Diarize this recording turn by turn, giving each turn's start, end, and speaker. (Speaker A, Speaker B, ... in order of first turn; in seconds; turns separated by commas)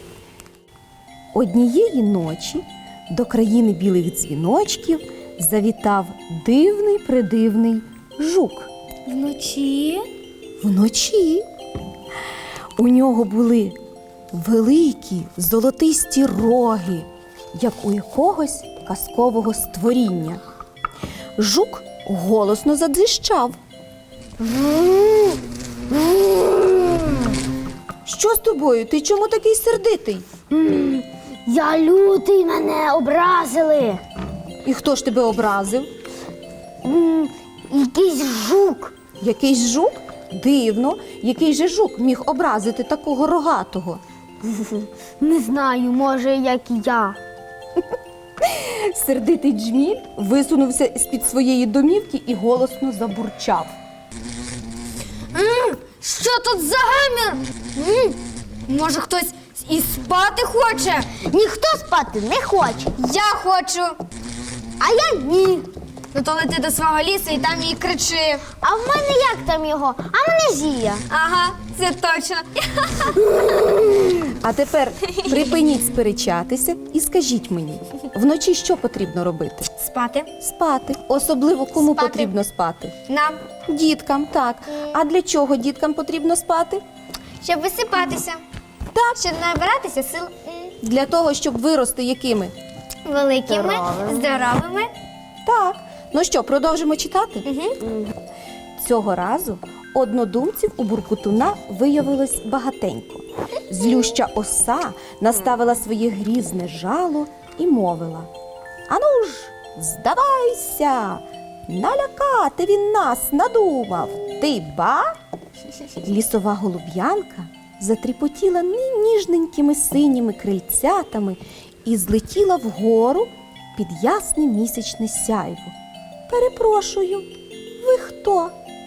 Speaker A: 1.3-8.7, Speaker B: 9.1-10.0, Speaker A: 10.6-11.4, Speaker A: 12.8-13.8, Speaker A: 14.3-20.4, Speaker A: 21.4-23.6, Speaker C: 24.4-27.2, Speaker A: 28.1-30.2, Speaker C: 30.5-34.0, Speaker A: 34.6-35.9, Speaker C: 36.8-38.9, Speaker A: 39.2-44.0, Speaker C: 44.4-47.2, Speaker A: 48.4-53.7, Speaker C: 55.3-58.2, Speaker B: 58.7-61.1, Speaker C: 61.1-62.9, Speaker B: 63.0-64.0, Speaker C: 64.8-65.7, Speaker B: 66.1-68.5, Speaker C: 68.6-71.0, Speaker B: 71.1-73.4, Speaker A: 74.4-79.7, Speaker B: 75.1-75.4, Speaker B: 79.8-80.3, Speaker A: 80.4-82.9, Speaker B: 81.8-82.4, Speaker B: 83.1-83.4, Speaker A: 83.7-86.8, Speaker B: 87.4-88.4, Speaker A: 88.9-89.2, Speaker B: 89.1-90.7, Speaker A: 90.8-92.5, Speaker B: 93.0-94.9, Speaker C: 93.5-94.2, Speaker A: 95.4-97.5, Speaker B: 97.4-97.8, Speaker A: 98.8-108.3, Speaker A: 108.9-115.1, Speaker A: 116.0-125.7, Speaker A: 126.3-127.3, Speaker A: 127.8-128.5